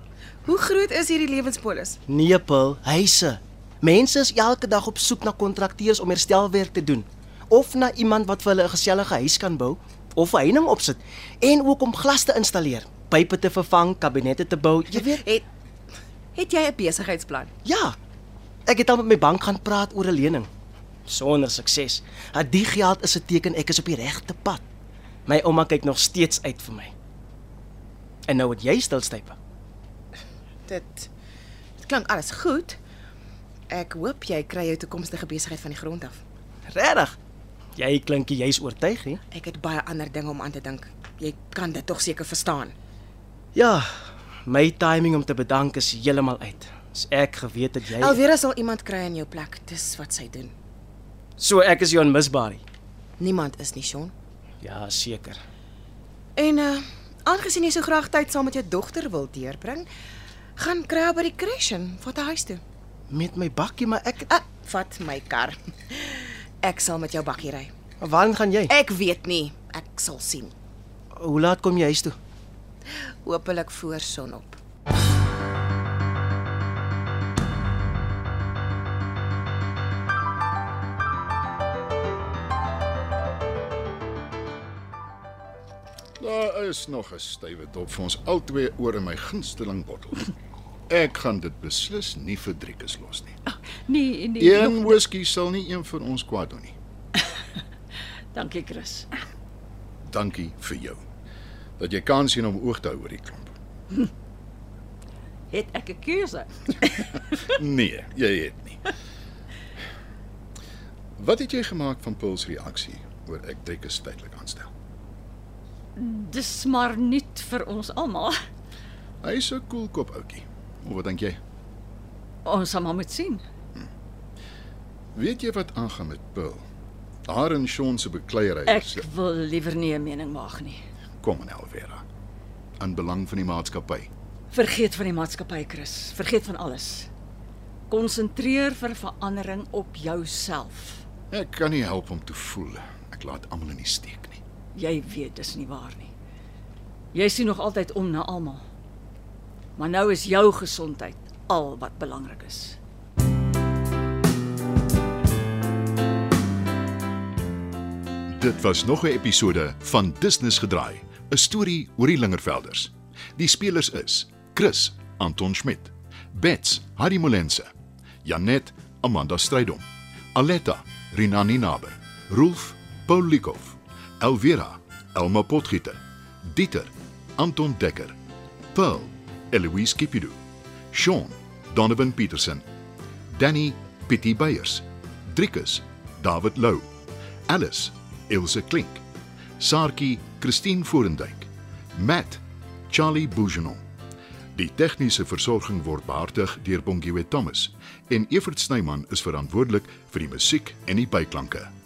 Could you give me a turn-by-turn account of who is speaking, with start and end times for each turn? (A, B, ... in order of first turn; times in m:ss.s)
0:00.4-0:02.0 A
0:02.2-0:15.2 B
0:14.9-0:15.4 A
0:16.4-0:17.5 A
0:17.7-0:18.0 B
0:18.7-0:20.5 B
0:21.1-0:24.6 B
0:25.3-0:26.9 B
0:28.3-0:29.4 B
0:30.7-0:31.1 A
0:31.8-0:32.8 A
0:33.7-0:36.2 A
0:36.7-0:37.2 B
0:37.8-0:39.2 B
0:39.3-0:42.7 A
0:43.6-0:43.9 B
0:44.5-0:48.2 B
0:48.0-0:50.5 A
0:51.4-0:52.6 B
0:53.2-0:54.1 A
0:54.6-0:55.4 B
0:56.4-0:59.9 A
1:00.6-1:02.6 A
1:03.1-1:04.3 B
1:04.3-1:07.7 A
1:08.0-1:08.7 B
1:08.7-1:10.5 A
1:11.2-1:12.2 B
1:13.0-1:14.6 A
1:26.2-1:30.3 C
1:30.9-1:33.4 C
1:33.5-1:35.0 D
1:34.4-1:36.8 C
1:38.3-1:39.1 D
1:40.1-1:41.0 C
1:41.8-1:43.6 C
1:45.5-1:47.3 D
1:47.4-1:48.9 C
1:51.2-1:54.7 C
1:56.0-1:58.4 D
1:59.2-2:01.4 C
2:02.4-2:03.4 D
2:05.2-2:06.7 C
2:07.3-2:09.1 C
2:08.7-2:10.8 D
2:11.2-2:12.0 C
2:12.8-2:14.1 C
2:14.5-2:17.1 D
2:17.9-2:21.0 D
2:21.3-2:24.4 C
2:24.8-2:26.1 D
2:27.1-2:28.6 D
2:29.8-2:32.8 D
2:38.4-2:47.7 C
2:48.2-2:58.2 C
2:58.7-3:00.4 C
3:00.9-3:02.6 C
3:03.3-3:06.9 C
3:07.5-3:09.0 C
3:09.6-3:13.8 C
3:14.6-3:21.7 C